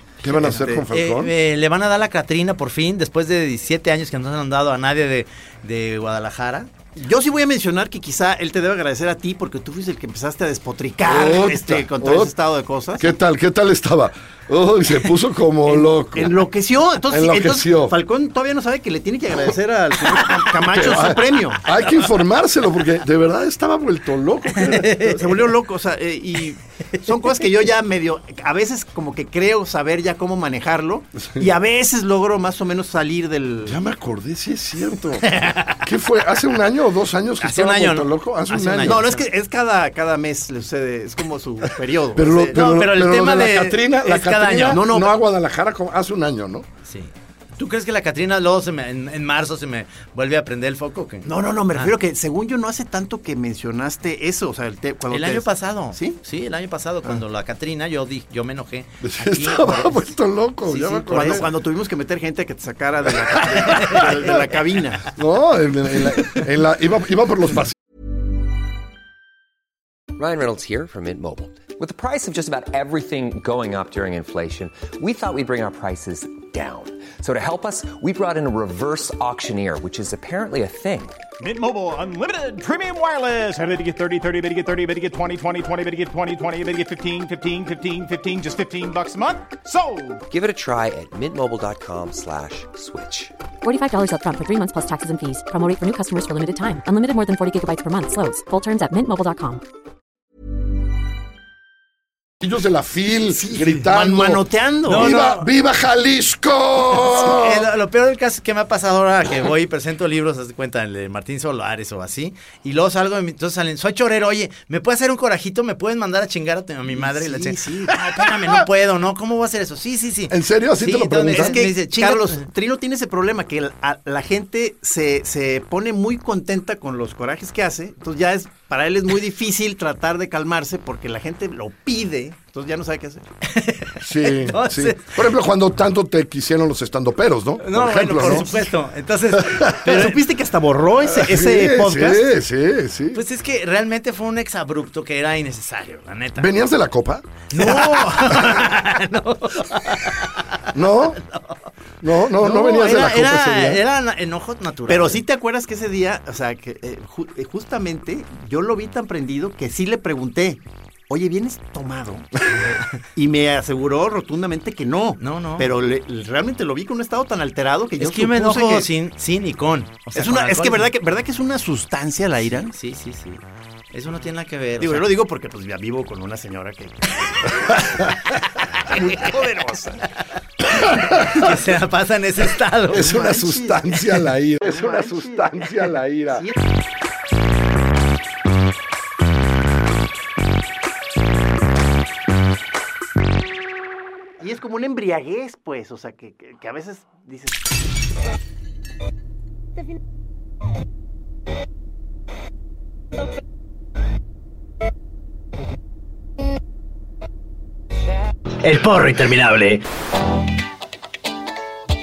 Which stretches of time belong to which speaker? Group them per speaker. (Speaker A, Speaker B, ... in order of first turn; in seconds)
Speaker A: 0.2-1.3, 11.1-12.3, 13.0-16.4, 17.1-18.0, 20.6-25.4, 33.6-39.1, 42.1-46.7, 59.0-61.5, 63.4-63.9, 65.1-67.8, 102.4-107.7, 120.3-121.6, 134.0-138.5, 139.3-139.8, 141.1-143.2, 146.4-147.3, 150.7-151.2, 152.0-153.8, 181.0-181.4, 182.9-186.5
Speaker B: 0.2-0.9, 7.0-13.1, 15.6-21.6, 25.1-33.8, 38.8-42.6, 44.7-45.1, 51.2-56.2, 61.1-65.1, 103.3-105.1, 116.9-118.0, 121.3-133.3, 138.2-138.6, 139.8-142.3, 147.6-148.2, 154.9-168.9, 170.1-172.7, 174.8-178.1, 178.7-180.1, 182.9-184.1, 184.6-185.8, 186.3-186.6, 194.4-197.6
Speaker C: 0.9-6.7, 24.6-25.2, 35.3-35.8, 37.4-39.3, 42.5-44.9, 46.9-51.9, 55.1-60.1, 60.6-61.5, 63.7-64.1, 104.9-105.5, 107.1-122.4, 133.5-135.3, 137.6-140.2, 143.1-146.5, 147.5-150.6, 151.2-151.6, 152.4-155.2, 165.2-165.7, 168.0-170.9, 172.7-175.1, 181.1-183.2, 208.6-209.8
Speaker D: 70.2-81.2, 90.3-93.3
Speaker E: 81.4-90.2
Speaker F: 93.6-99.6